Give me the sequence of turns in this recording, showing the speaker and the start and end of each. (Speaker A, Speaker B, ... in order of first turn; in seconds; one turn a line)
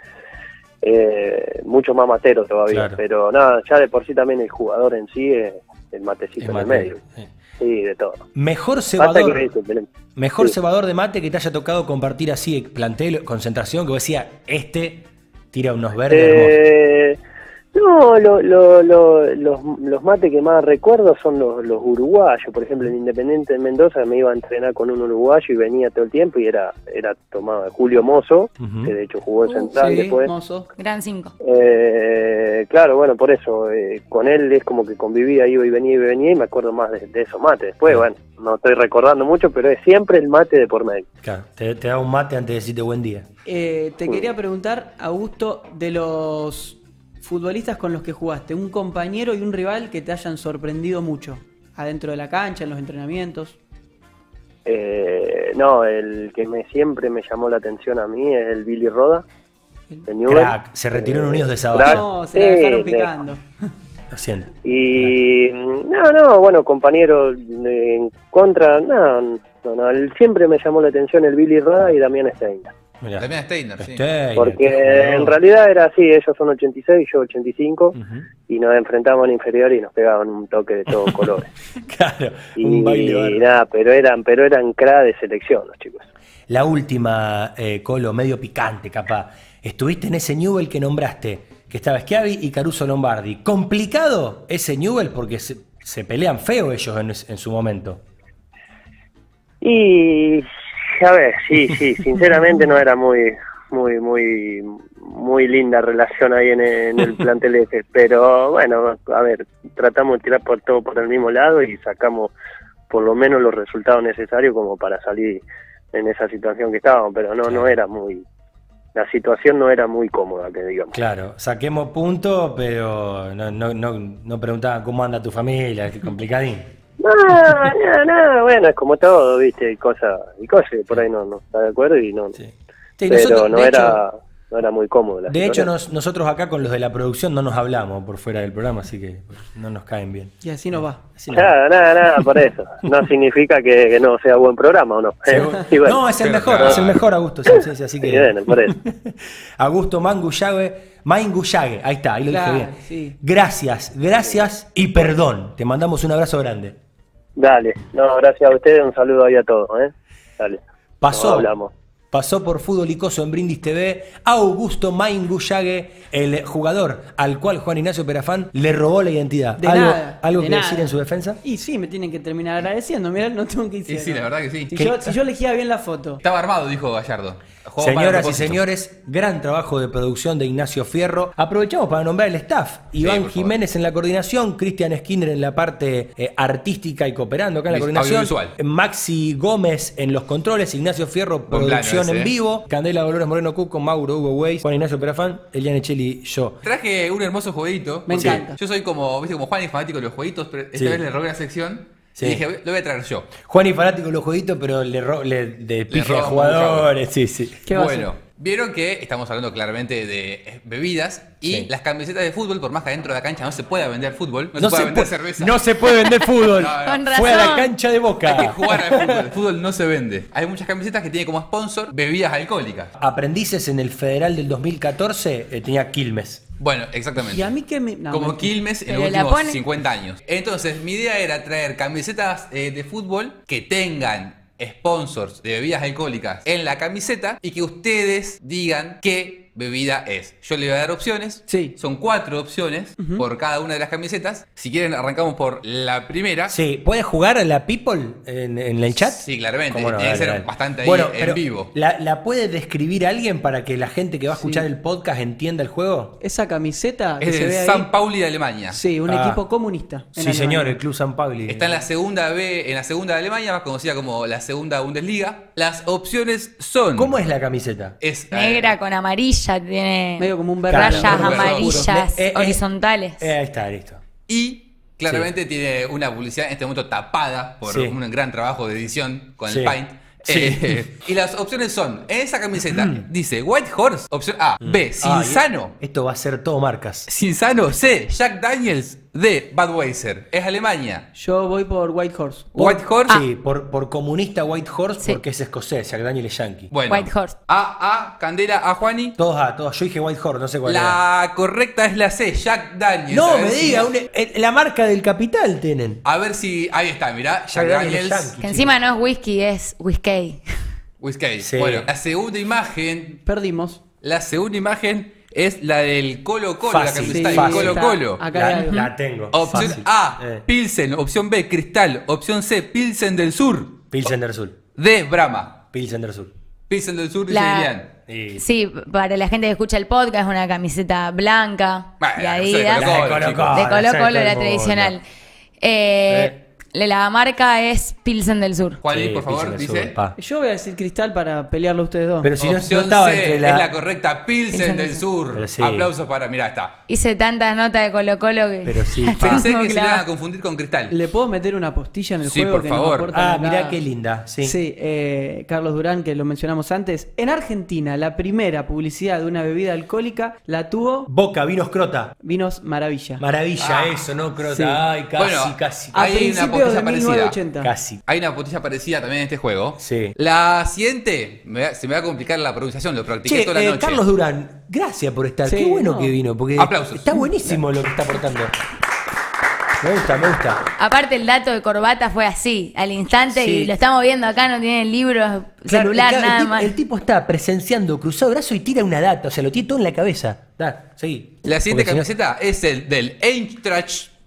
Speaker A: 0.8-7.0
Speaker B: 2.7-3.0
Speaker B: 6.4-7.3
Speaker A: 7.6-8.2
Speaker B: 8.3-9.5
Speaker A: 9.0-9.9
Speaker B: 10.2-16.6
Speaker A: 16.1-17.2
Speaker A: 17.7-30.3
Speaker B: 28.6-28.9
Speaker C: 29.5-30.7
Speaker D: 30.8-31.3
Speaker A: 31.4-41.0
Speaker B: 41.2-43.3
Speaker C: 43.5-53.6
Speaker A: 54.6-59.2
Speaker A: 60.1-63.1
Speaker B: 60.3-62.0
Speaker C: 61.8-63.4
Speaker B: 64.1-65.2
Speaker A: 64.6-72.7
Speaker B: 73.0-75.3
Speaker E: 73.2-74.0
Speaker A: 74.3-78.0
Speaker B: 77.9-78.2
Speaker A: 78.5-81.5
Speaker B: 80.9-83.4
Speaker A: 82.6-86.1
Speaker B: 86.5-98.0
Speaker A: 99.6-100.5
Speaker A: 101.0-112.3
Speaker A: 112.9-118.2
Speaker A: 118.9-121.0
Speaker B: 120.9-126.7
Speaker A: 127.0-132.4
Speaker B: 132.3-134.0
Speaker A: 133.1-135.7
Speaker B: 135.3-141.5
Speaker C: 140.4-141.0
Speaker A: 141.3-146.0
Speaker B: 145.3-156.8
Speaker E: 146.2-147.0
Speaker A: 147.5-148.8
Speaker C: 152.3-153.2
Speaker A: 157.4-160.6
Speaker B: 161.0-161.5
Speaker A: 161.1-161.7
Speaker B: 162.1-171.4
Speaker C: 169.6-176.2
Speaker E: 173.9-174.8
Speaker B: 174.7-175.1
Speaker E: 176.2-178.6
Speaker B: 177.8-196.6
Speaker E: 183.0-183.5
Speaker E: 187.7-188.5
Speaker E: 191.5-192.3
Speaker E: 196.6-203.3
Speaker C: 198.1-198.6
Speaker B: 198.1-198.4
Speaker B: 200.7-201.0
Speaker B: 203.4-207.6
Speaker E: 205.9-206.9
Speaker C: 207.7-208.1
Speaker E: 207.7-215.6
Speaker B: 211.4-211.7
Speaker B: 214.6-219.3
Speaker E: 216.3-217.5
Speaker D: 216.8-217.7
Speaker E: 218.2-222.9
Speaker B: 223.0-226.4
Speaker E: 226.6-227.5
Speaker C: 227.3-228.5
Speaker E: 228.1-246.5
Speaker D: 228.9-229.6
Speaker C: 241.5-241.7
Speaker C: 243.0-243.2
Speaker B: 246.5-256.2
Speaker E: 249.1-251.7
Speaker C: 254.3-254.7
Speaker C: 256.2-257.9
Speaker E: 257.2-258.8
Speaker C: 258.7-260.8
Speaker B: 259.1-259.4
Speaker B: 260.1-261.8
Speaker E: 261.5-267.1
Speaker B: 266.9-267.9
Speaker E: 268.0-268.7
Speaker D: 268.3-273.3
Speaker C: 270.2-271.9
Speaker B: 270.7-272.6
Speaker E: 271.1-271.8
Speaker B: 273.2-274.0
Speaker E: 274.3-285.7
Speaker B: 277.6-277.9
Speaker B: 279.5-280.9
Speaker B: 282.7-283.0
Speaker B: 284.6-287.1
Speaker E: 287.1-291.1
Speaker C: 291.1-292.8
Speaker E: 292.6-293.2
Speaker B: 293.1-296.7
Speaker E: 296.7-299.1
Speaker D: 296.9-297.3
Speaker B: 299.2-301.0
Speaker E: 300.6-303.9
Speaker B: 303.1-306.0
Speaker E: 306.0-308.3
Speaker B: 307.5-308.8
Speaker D: 308.4-310.4
Speaker E: 311.0-313.2
Speaker B: 311.4-311.9
Speaker C: 313.2-313.8
Speaker E: 314.0-318.2
Speaker B: 316.6-320.4
Speaker C: 317.1-318.9
Speaker D: 318.6-318.9
Speaker E: 319.3-323.9
Speaker B: 323.9-324.6
Speaker E: 324.8-325.6
Speaker B: 325.7-326.3
Speaker E: 326.7-327.9
Speaker D: 327.3-327.7
Speaker B: 328.1-328.4
Speaker D: 328.4-335.0
Speaker E: 332.0-333.5
Speaker B: 332.7-334.9
Speaker D: 335.6-338.8
Speaker B: 336.1-336.3
Speaker E: 338.8-339.9
Speaker B: 338.8-340.1
Speaker C: 340.2-342.3
Speaker B: 342.2-343.7
Speaker E: 342.4-346.8
Speaker D: 344.5-345.0
Speaker B: 345.3-345.9
Speaker D: 346.9-350.0
Speaker B: 348.6-349.4
Speaker E: 349.2-350.9
Speaker C: 350.9-353.8
Speaker E: 352.2-353.1
Speaker B: 353.1-354.6
Speaker C: 354.4-361.1
Speaker B: 361.1-362.1
Speaker C: 362.2-363.2
Speaker B: 363.2-366.1
Speaker E: 363.6-364.0
Speaker C: 364.4-364.8
Speaker E: 365.2-367.4
Speaker C: 365.9-367.7
Speaker B: 367.6-368.0
Speaker E: 368.1-374.0
Speaker B: 369.8-370.1
Speaker B: 373.2-378.5
Speaker C: 375.4-376.1
Speaker E: 376.6-377.2
Speaker C: 377.2-377.5
Speaker B: 379.8-380.6
Speaker D: 380.8-386.7
Speaker B: 383.3-383.7
Speaker B: 385.7-392.1
Speaker E: 391.4-394.1